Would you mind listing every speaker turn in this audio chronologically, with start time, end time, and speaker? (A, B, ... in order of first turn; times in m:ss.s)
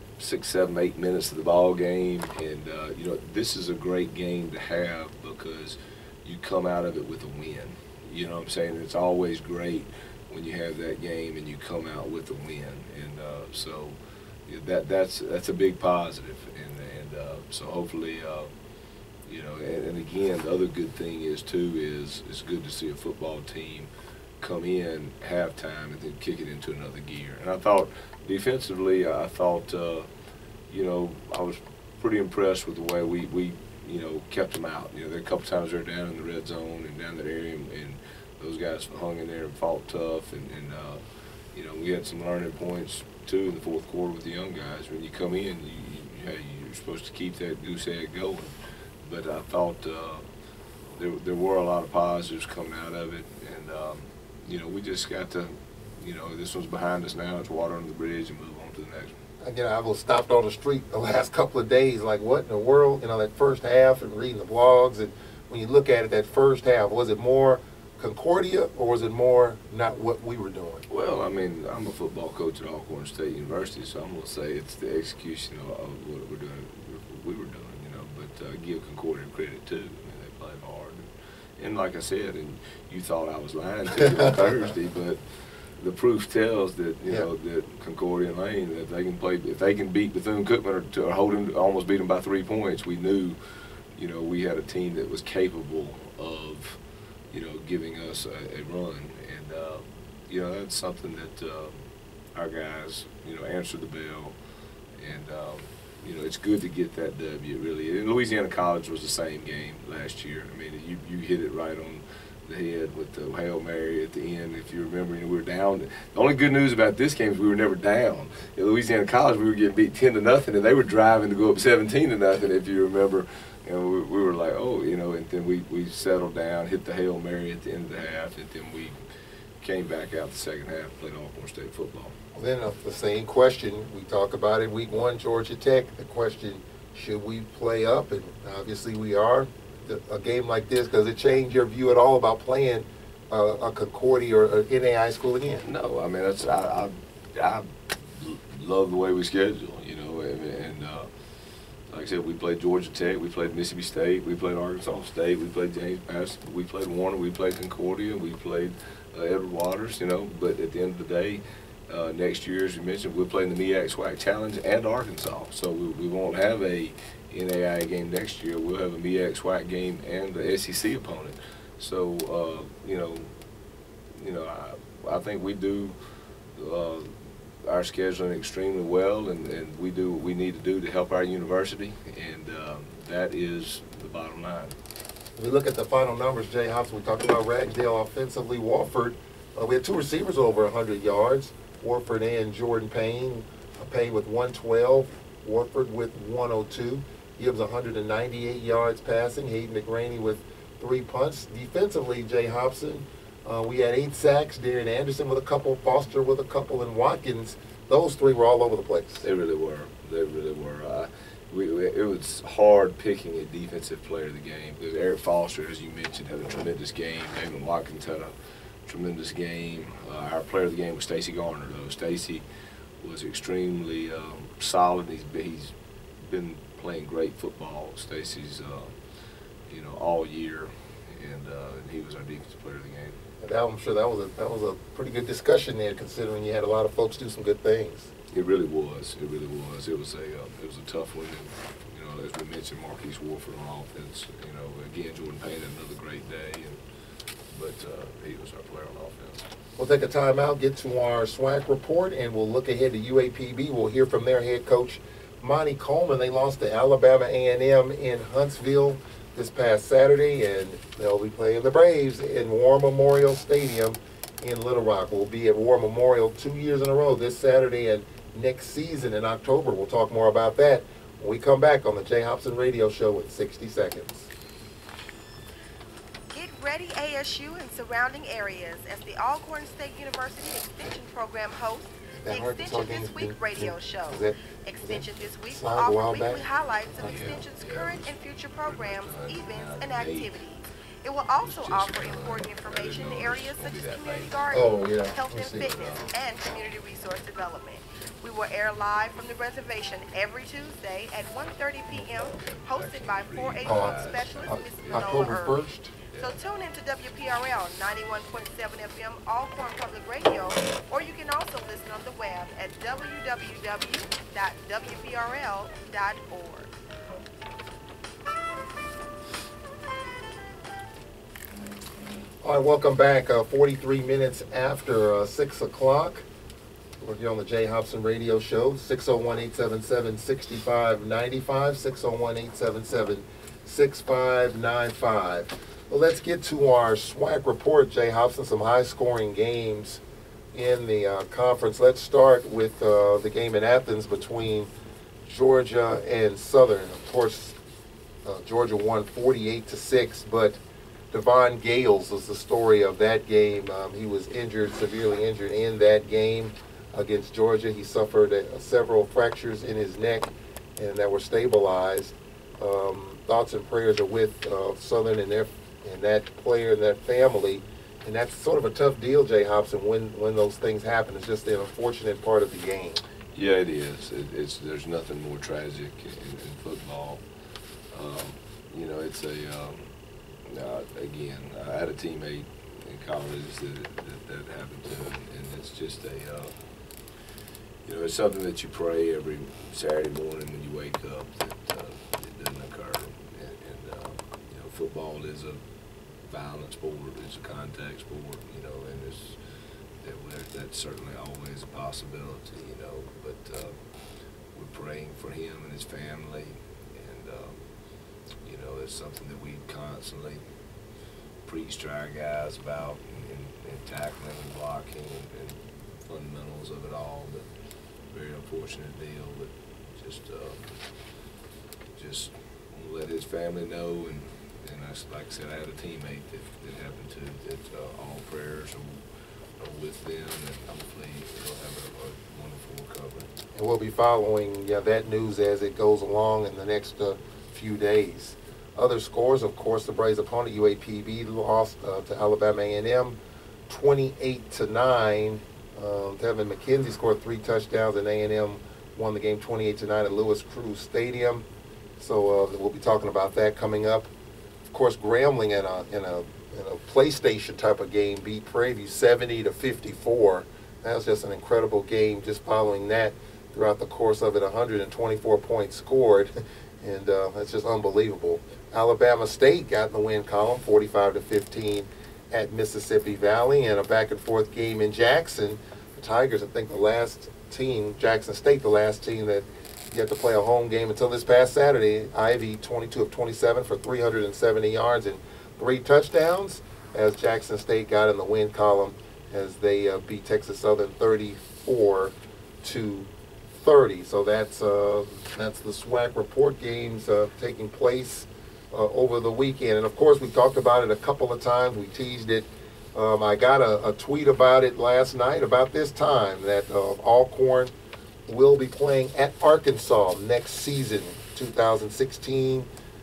0:00.2-0:18.5 A
0:19.2-0:30.1 A
0:30.7-0:41.0 A
0:41.5-0:50.3 A
0:51.0-0:59.2 A
0:59.4-1:10.8 B
1:10.9-1:25.2 A
1:25.8-1:33.4 A
1:34.0-1:36.8 A
1:37.3-1:44.4 A
1:45.0-2:09.0 A
2:09.6-2:12.2 A
2:12.4-2:25.6 B
2:25.6-2:31.1 A
2:31.9-2:53.3 A
2:54.2-2:56.0 A
2:56.5-3:04.8 A
3:05.4-3:29.2 B
3:29.2-3:38.3 A
3:38.9-3:42.4 A
3:43.0-3:49.0 A
3:49.7-3:53.2 A
3:53.4-3:58.1 B
3:58.3-4:06.8 A
4:07.5-4:09.5 A
4:09.8-4:34.3 B
4:36.3-5:05.6 C
4:42.2-4:47.3 B
4:47.0-4:50.4 A
4:51.4-4:54.4 A
4:54.5-4:55.8 B
4:55.4-4:56.1 A
5:02.1-5:05.4 A
5:03.6-5:05.9 B
5:06.1-5:06.4 A
5:06.2-5:16.7 C
5:22.4-5:26.2 B
5:27.0-5:40.0 B
5:40.5-5:44.7 B
5:45.2-5:47.6 B
5:48.2-5:50.6 B
5:51.1-6:13.0 B
6:13.3-6:17.2 A
6:17.9-6:19.9 A
6:20.5-6:26.5 A
6:27.8-6:35.6 A
6:36.3-6:39.4 A
6:40.0-6:43.8 A
6:44.5-6:47.6 A
6:48.4-6:50.4 A
6:51.4-6:57.5 A
6:58.1-7:00.8 A
7:01.9-7:09.0 A
7:09.6-7:13.3 A
7:13.5-7:23.2 B
7:23.7-7:31.5 B
7:32.0-7:34.1 B
7:34.7-8:27.7 B
8:28.3-8:32.7 B